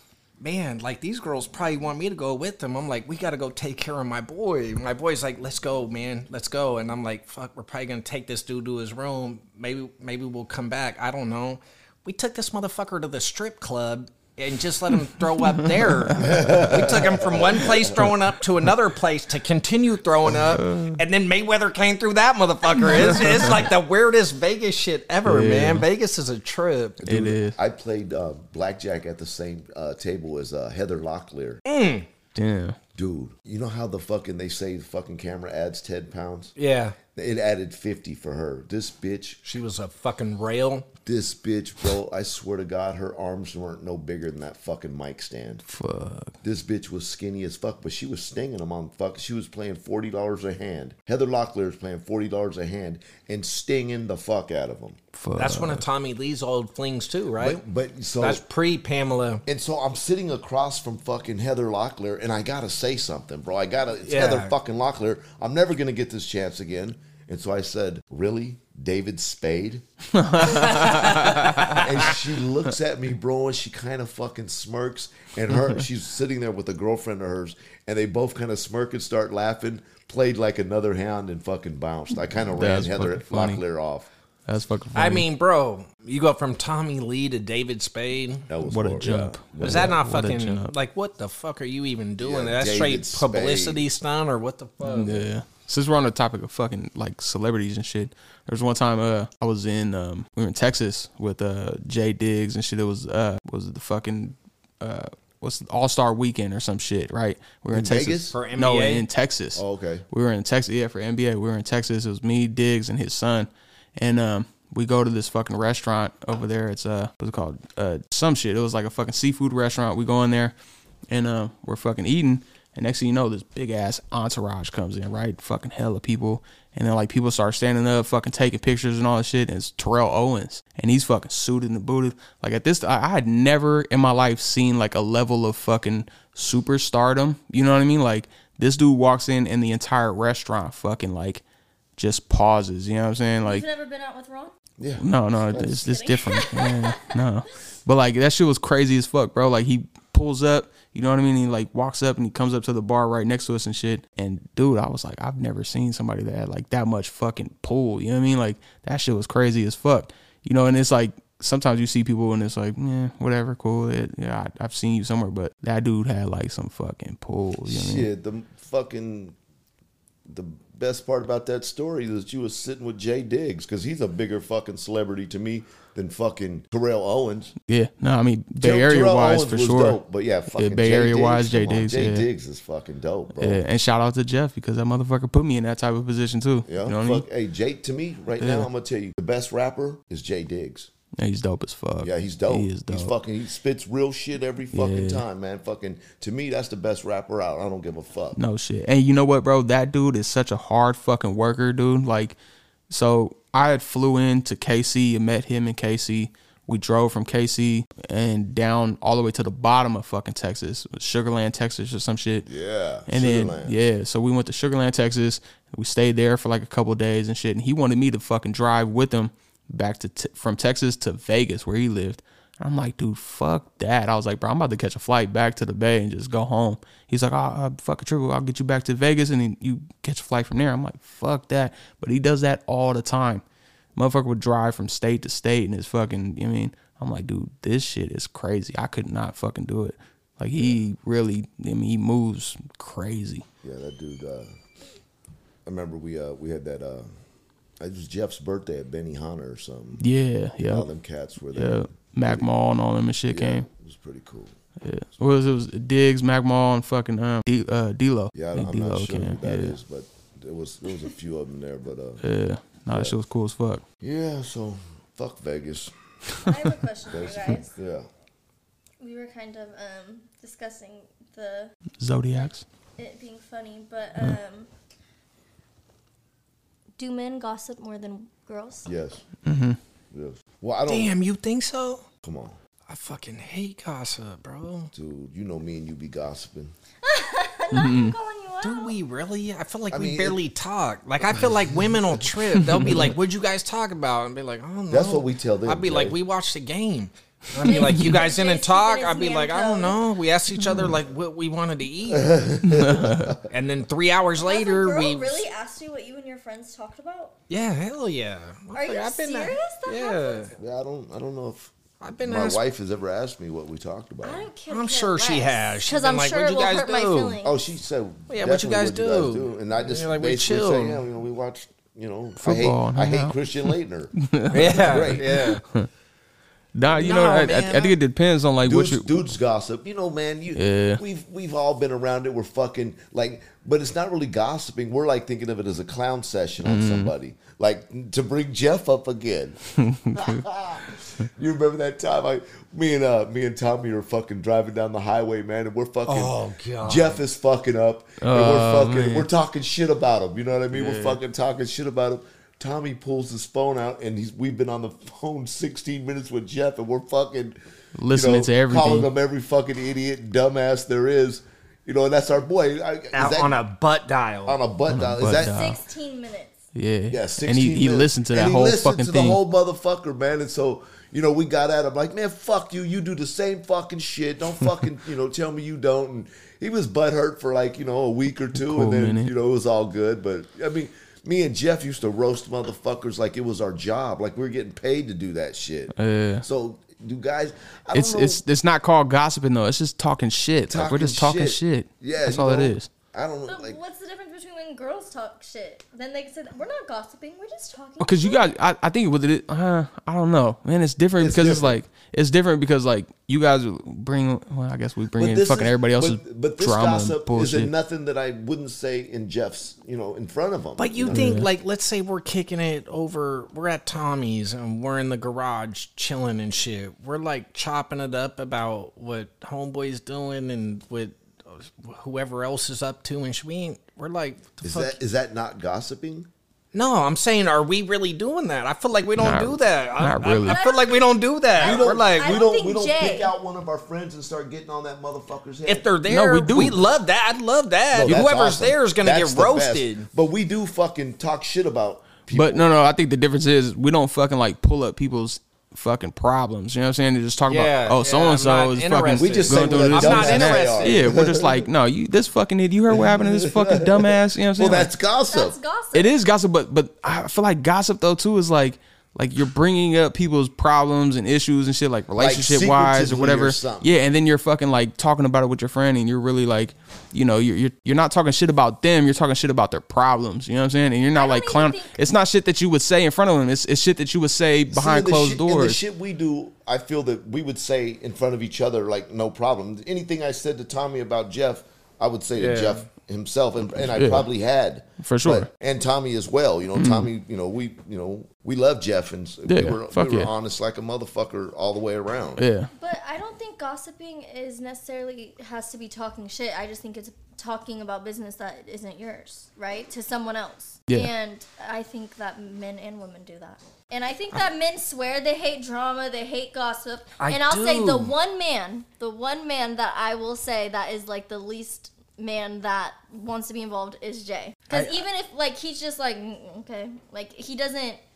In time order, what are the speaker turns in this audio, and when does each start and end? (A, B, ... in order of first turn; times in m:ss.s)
0:00.4-0:27.2 A
0:16.0-0:17.0 B
0:16.2-0:17.9 C
0:20.5-0:21.0 B
0:22.8-0:23.6 B
0:25.2-0:25.9 B
0:27.0-0:31.6 C
0:27.0-0:27.6 B
0:31.7-0:32.1 A
0:32.3-0:32.8 B
0:33.0-0:36.5 C
0:36.6-0:37.0 A
0:37.1-0:39.4 C
0:39.4-0:40.9 A
0:41.0-0:45.6 C
0:45.7-0:46.3 B
0:46.4-0:55.0 C
0:55.1-0:55.9 B
0:55.4-0:57.6 A
0:57.4-0:58.4 C
0:58.2-0:59.4 A
0:59.5-1:09.8 C
1:04.0-1:04.5 A
1:10.2-1:11.8 B
1:10.4-1:11.9 A
1:11.7-1:24.1 C
1:22.5-1:23.6 B
1:24.5-1:25.2 B
1:25.0-1:28.5 A
1:28.5-1:30.0 C
1:28.6-1:30.7 B
1:29.6-1:35.2 A
1:32.2-1:33.8 C
1:34.8-2:00.5 B
1:47.7-1:48.4 C
1:48.3-1:49.0 A
1:49.6-1:50.0 C
2:01.1-2:21.4 B
2:22.0-2:23.7 B
2:23.4-2:24.5 D
2:24.8-2:25.9 C
2:25.0-2:48.0 B
2:25.6-2:27.2 D
2:47.7-2:49.4 C
2:50.3-2:57.5 C
2:57.7-3:00.0 B
2:58.6-3:03.6 C
3:00.5-3:02.3 B
3:03.4-3:07.2 B
3:06.7-3:10.9 C
3:08.4-3:08.7 B
3:11.2-3:13.1 B
3:12.0-3:18.4 C
3:14.7-3:15.2 B
3:18.4-3:22.4 B
3:22.9-3:32.5 B
3:32.4-3:33.8 C
3:33.1-3:53.4 B
3:54.0-4:03.4 B
4:03.6-4:04.6 C
4:05.6-4:07.1 C
4:07.8-4:10.0 C
4:10.0-4:10.9 B
4:10.7-4:12.5 C
4:11.6-4:13.6 B
4:13.3-4:14.6 C
4:14.8-4:19.8 B
4:18.3-4:22.2 C
4:22.2-4:23.8 B
4:22.9-4:23.2 C
4:24.0-4:25.9 C
4:26.4-4:27.7 D
4:27.1-4:28.1 C
4:29.0-4:31.7 D
4:32.0-4:32.6 B
4:32.3-4:34.7 D
4:37.0-4:38.9 D
4:38.9-4:39.2 C
4:39.4-4:39.8 B
4:40.1-4:41.1 C
4:40.9-4:42.0 A
4:42.2-4:42.6 C
4:42.9-4:44.9 A
4:44.9-4:46.7 C
4:47.0-4:48.9 D
4:47.7-4:48.1 B
4:48.6-5:02.5 A
4:49.9-4:50.4 C
4:51.4-4:52.2 C
4:52.7-4:53.1 B
4:54.9-4:56.2 C
4:57.6-5:00.0 D
5:00.6-5:00.9 B
5:02.1-5:03.5 C
5:02.6-5:03.3 B
5:03.5-5:05.4 A
5:04.4-5:07.3 D
5:07.5-5:10.5 A
5:08.7-5:10.5 D
5:10.6-5:14.5 C
5:12.0-5:12.6 A
5:14.2-5:17.6 D
5:14.7-5:17.4 A
5:17.4-5:24.1 C
5:18.3-5:21.0 A
5:22.4-5:25.9 B
5:24.5-5:25.6 A
5:24.7-5:25.3 C
5:26.7-5:29.1 B
5:26.9-5:28.0 A
5:28.6-5:39.6 C
5:30.6-5:31.0 B
5:36.6-5:37.1 B
5:39.8-5:40.4 B
5:40.1-5:57.6 C
5:46.0-5:47.2 A
5:48.2-5:49.3 B
5:50.7-5:51.2 B
5:58.0-5:59.1 B
5:58.1-6:03.6 C
6:03.1-6:04.6 A
6:04.4-6:05.6 C
6:04.9-6:05.8 B
6:05.3-6:06.6 D
6:06.7-6:09.4 B
6:07.1-6:28.4 C
6:18.6-6:19.3 B
6:26.0-6:26.4 B
6:27.9-6:32.9 B
6:30.7-6:33.8 C
6:33.5-6:38.6 D
6:38.0-6:47.7 B
6:41.2-6:41.8 C
6:45.2-6:51.4 C
6:50.8-7:05.0 A
6:51.1-6:51.5 B
7:04.6-7:06.3 C
7:06.7-7:12.4 A
7:09.2-7:10.6 B
7:10.4-7:13.3 D
7:11.6-7:15.9 C
7:15.6-7:20.1 A
7:16.0-7:16.8 B
7:17.9-7:22.7 C
7:22.3-7:34.9 B
7:27.5-7:31.1 A
7:29.2-7:31.7 C
7:32.9-7:35.6 C
7:35.3-7:36.2 D
7:35.9-7:55.8 B
7:42.2-7:43.9 C
7:51.1-7:52.0 D
7:54.7-8:12.4 C
8:02.4-8:02.8 A
8:03.6-8:04.3 B
8:05.0-8:05.5 B
8:06.8-8:07.1 B
8:09.5-8:10.3 B
8:12.4-8:12.7 B
8:12.8-8:38.0 D
8:27.2-8:28.1 A
8:34.7-8:35.0 A